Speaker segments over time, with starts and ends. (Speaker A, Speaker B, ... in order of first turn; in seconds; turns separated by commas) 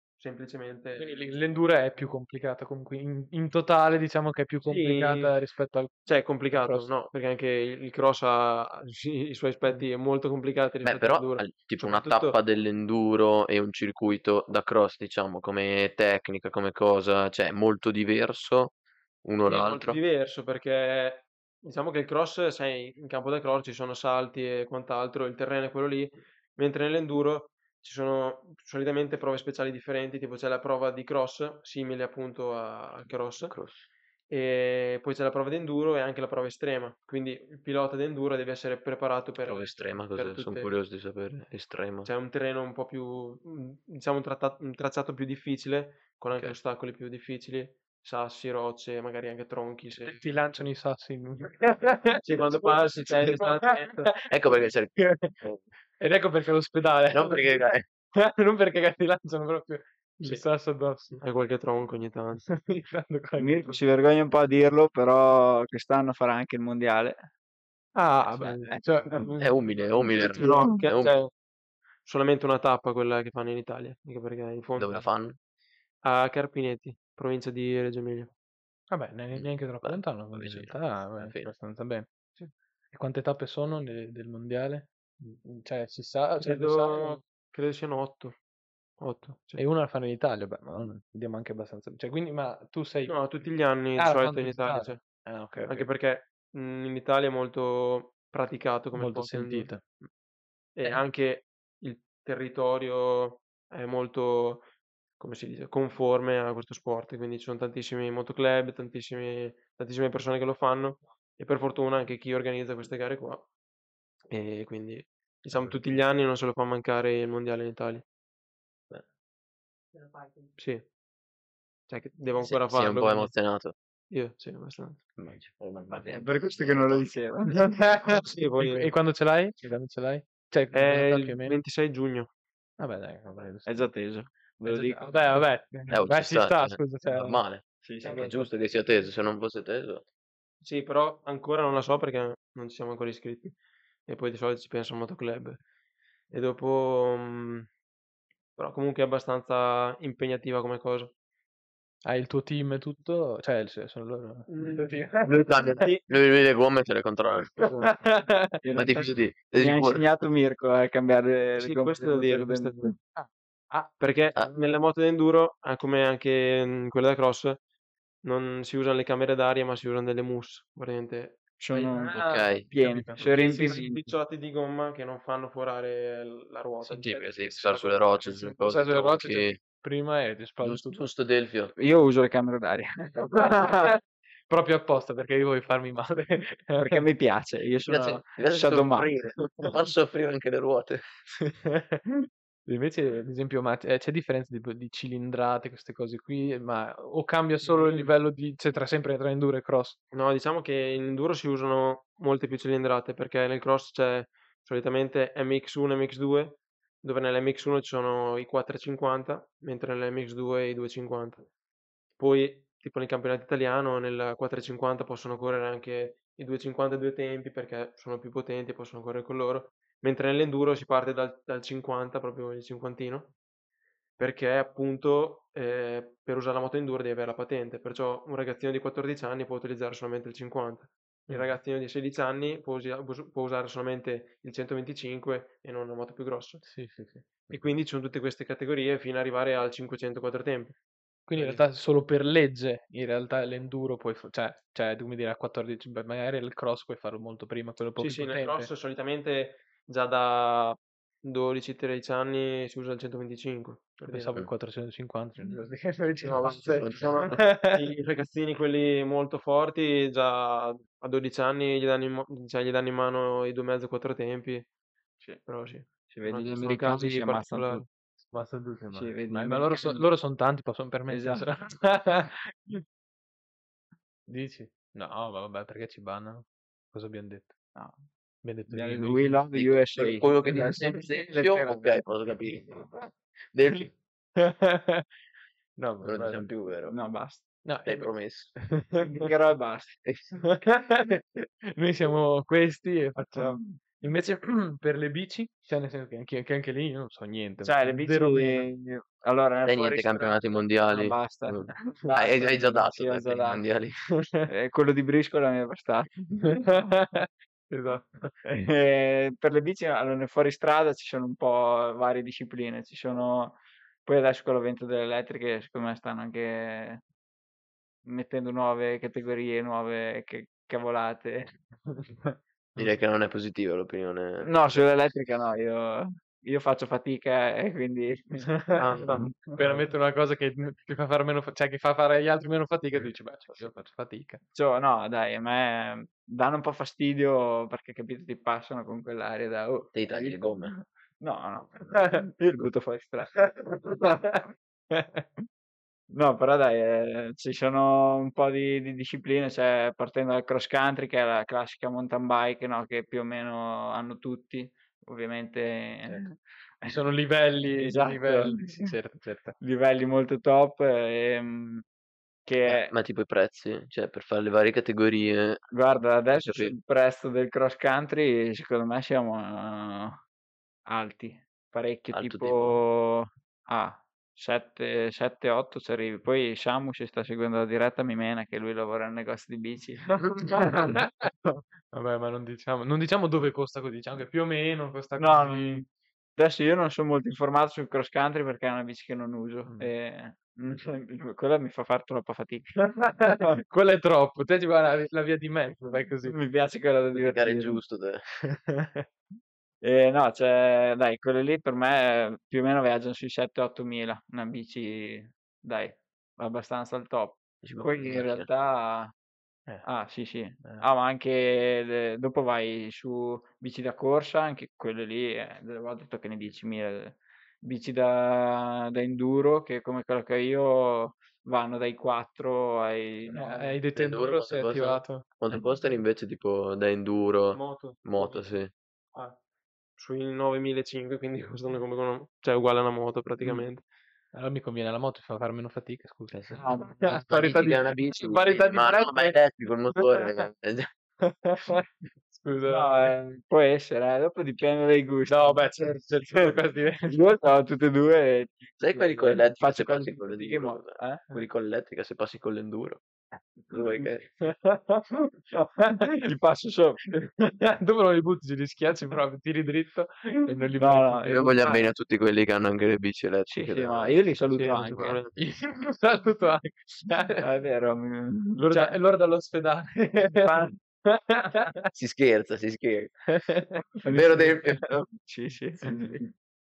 Speaker A: 0.2-1.2, Speaker B: 1.0-6.9, Speaker A: 4.6-5.3, Speaker A: 6.1-12.4, Speaker C: 10.8-20.0, Speaker A: 19.4-33.5, Speaker C: 33.5-33.9, Speaker A: 34.3-40.7, Speaker C: 39.4-42.1, Speaker A: 42.0-50.2, Speaker B: 50.0-54.3, Speaker A: 52.2-54.1, Speaker C: 54.3-55.6, Speaker B: 55.0-55.3, Speaker B: 56.0-57.4, Speaker C: 57.1-57.8, Speaker B: 58.1-61.2, Speaker A: 60.2-60.4, Speaker A: 61.2-62.4, Speaker B: 62.5-63.8, Speaker D: 63.4-67.3, Speaker B: 67.9-69.4, Speaker A: 68.3-68.7, Speaker A: 69.2-71.3, Speaker C: 69.4-71.1, Speaker D: 70.4-70.8, Speaker A: 72.0-75.0, Speaker C: 74.8-75.4, Speaker A: 76.0-78.3, Speaker B: 78.9-82.1, Speaker C: 79.3-81.5, Speaker B: 82.9-87.2, Speaker A: 86.4-88.4, Speaker A: 89.0-89.6, Speaker B: 89.5-93.2, Speaker A: 93.1-95.0, Speaker B: 94.0-95.9, Speaker A: 95.6-99.9, Speaker B: 98.9-99.8, Speaker A: 100.7-104.7, Speaker A: 105.2-113.5, Speaker A: 114.3-118.0, Speaker A: 120.1-120.9, Speaker A: 121.9-123.3, Speaker C: 122.4-123.7, Speaker A: 124.1-125.0, Speaker C: 125.2-127.0, Speaker D: 126.1-127.7, Speaker B: 127.8-131.6, Speaker A: 128.0-128.9, Speaker A: 130.7-132.3, Speaker B: 132.8-133.9, Speaker D: 133.7-135.3, Speaker B: 134.6-137.4, Speaker C: 135.9-140.0, Speaker D: 137.8-138.4, Speaker A: 140.6-143.6, Speaker A: 144.1-145.6, Speaker A: 146.3-147.7, Speaker A: 148.6-151.1, Speaker B: 152.0-155.4, Speaker A: 154.5-155.0, Speaker C: 155.2-157.9, Speaker B: 157.6-158.6, Speaker D: 158.6-162.9, Speaker C: 158.7-160.0, Speaker A: 161.6-162.9, Speaker B: 163.2-163.9, Speaker A: 164.0-167.6, Speaker A: 168.2-172.0, Speaker D: 171.6-174.1, Speaker B: 171.7-173.3, Speaker C: 172.1-172.7, Speaker A: 173.2-178.6, Speaker B: 176.9-177.3, Speaker C: 176.9-179.6, Speaker B: 178.6-181.0, Speaker C: 180.6-181.7, Speaker D: 181.8-183.9, Speaker B: 184.5-187.0, Speaker D: 186.8-189.1, Speaker C: 187.8-191.0, Speaker B: 191.4-192.0, Speaker B: 192.7-200.0, Speaker A: 197.6-198.1, Speaker A: 200.1-211.5, Speaker A: 212.2-223.3, Speaker A: 224.2-236.7, Speaker B: 231.3-231.6, Speaker B: 236.6-237.2, Speaker A: 237.5-240.8, Speaker B: 241.3-248.7, Speaker A: 241.3-241.6, Speaker A: 248.0-254.3, Speaker B: 254.1-257.8, Speaker A: 256.2-264.7, Speaker C: 256.8-257.2, Speaker A: 265.4-267.9, Speaker D: 266.1-267.8, Speaker B: 268.3-272.8, Speaker D: 268.9-270.1, Speaker D: 271.1-271.4, Speaker B: 274.3-277.5, Speaker B: 278.4-279.4, Speaker D: 278.7-282.0, Speaker C: 279.5-283.0, Speaker C: 283.5-283.9, Speaker B: 284.4-285.0, Speaker B: 285.8-286.5, Speaker C: 286.0-286.9, Speaker D: 286.9-287.4, Speaker B: 287.6-289.3, Speaker C: 287.8-288.6, Speaker D: 289.0-290.0, Speaker C: 290.0-290.3, Speaker B: 290.4-298.7, Speaker D: 293.3-293.8, Speaker D: 297.6-303.6, Speaker C: 299.6-304.0, Speaker D: 304.5-306.6, Speaker B: 306.4-308.3, Speaker D: 308.4-317.0, Speaker D: 318.0-321.5, Speaker C: 322.8-324.9, Speaker D: 324.4-329.8, Speaker A: 328.8-329.3, Speaker B: 329.5-334.4, Speaker D: 334.5-343.4, Speaker C: 339.9-340.7, Speaker B: 341.9-342.2, Speaker B: 343.4-345.2, Speaker D: 346.1-356.9, Speaker B: 356.8-359.5, Speaker D: 357.8-358.9, Speaker D: 359.6-361.8, Speaker D: 362.4-362.9, Speaker C: 362.7-365.6, Speaker D: 365.7-370.2, Speaker C: 366.4-366.7, Speaker D: 370.9-380.9, Speaker C: 372.1-372.8, Speaker B: 380.9-381.3, Speaker B: 381.9-385.8, Speaker D: 385.2-392.8, Speaker B: 389.6-389.9, Speaker B: 393.0-396.4, Speaker D: 396.2-397.8, Speaker C: 397.1-398.2, Speaker B: 398.5-399.1, Speaker D: 399.8-409.1, Speaker C: 407.6-408.5, Speaker D: 409.8-423.8, Speaker B: 423.3-425.4, Speaker C: 423.9-428.7, Speaker A: 427.5-428.5, Speaker A: 430.0-433.8, Speaker B: 434.3-439.4, Speaker C: 436.3-436.6, Speaker D: 436.6-437.2, Speaker C: 437.2-440.9, Speaker B: 439.9-440.3, Speaker B: 441.2-443.1, Speaker D: 442.7-445.7, Speaker B: 445.3-447.2, Speaker D: 447.1-451.2, Speaker C: 448.8-453.0, Speaker C: 453.7-454.3, Speaker B: 454.4-455.2, Speaker B: 455.8-456.2, Speaker D: 456.1-457.0, Speaker B: 457.1-461.6, Speaker D: 460.8-461.9, Speaker C: 461.3-464.2, Speaker D: 463.5-465.2, Speaker A: 464.5-465.4, Speaker B: 465.4-467.4, Speaker D: 467.4-469.0, Speaker B: 468.6-471.9, Speaker D: 470.4-470.7, Speaker C: 471.9-473.2, Speaker B: 473.3-473.8, Speaker D: 474.0-476.3, Speaker C: 474.1-474.9